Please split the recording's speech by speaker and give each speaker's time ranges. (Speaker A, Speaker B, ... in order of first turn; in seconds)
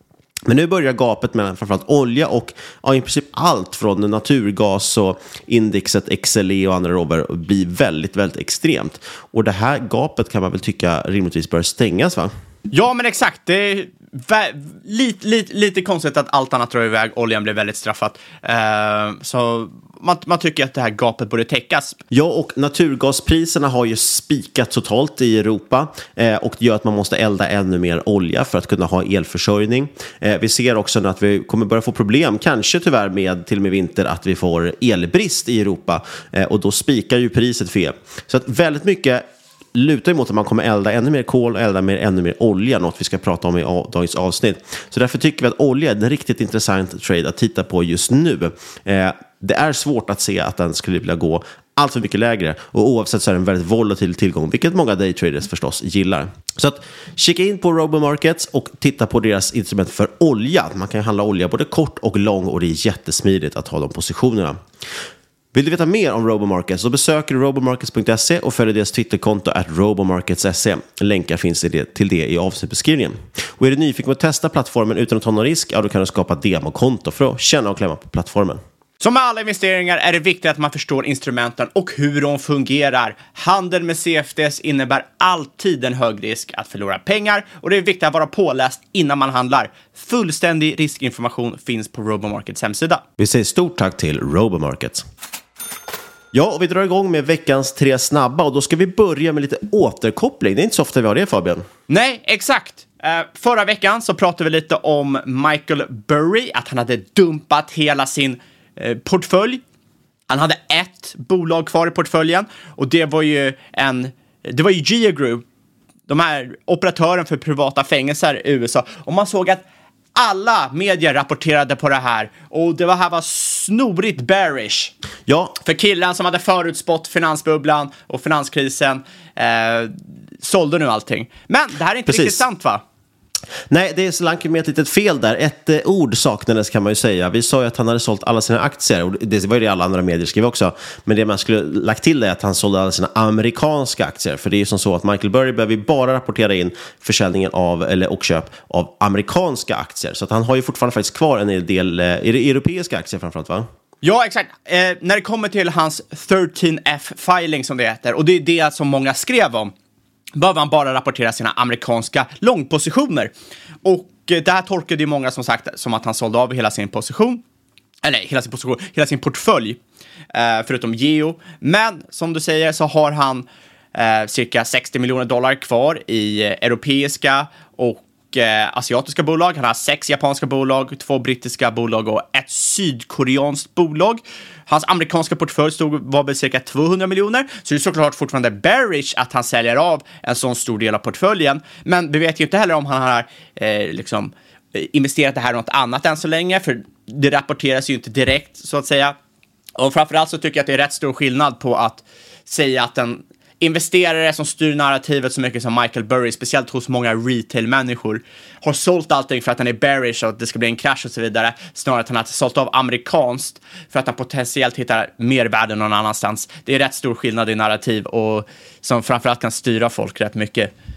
Speaker A: 0.5-12.3, 22.1-39.2, 39.8-64.6, 65.5-78.6, 93.2-95.1, 96.3-101.7, 125.3-125.6, 132.1-132.4, 133.7-153.7
Speaker B: 12.7-22.0, 79.0-93.0, 101.9-109.6, 110.3-115.4, 116.1-119.6, 120.2-124.9, 125.6-132.8, 154.0-159.7, 160.3-163.3, 163.8-167.4, 168.0-169.8, 170.3-199.2, 199.8-220.7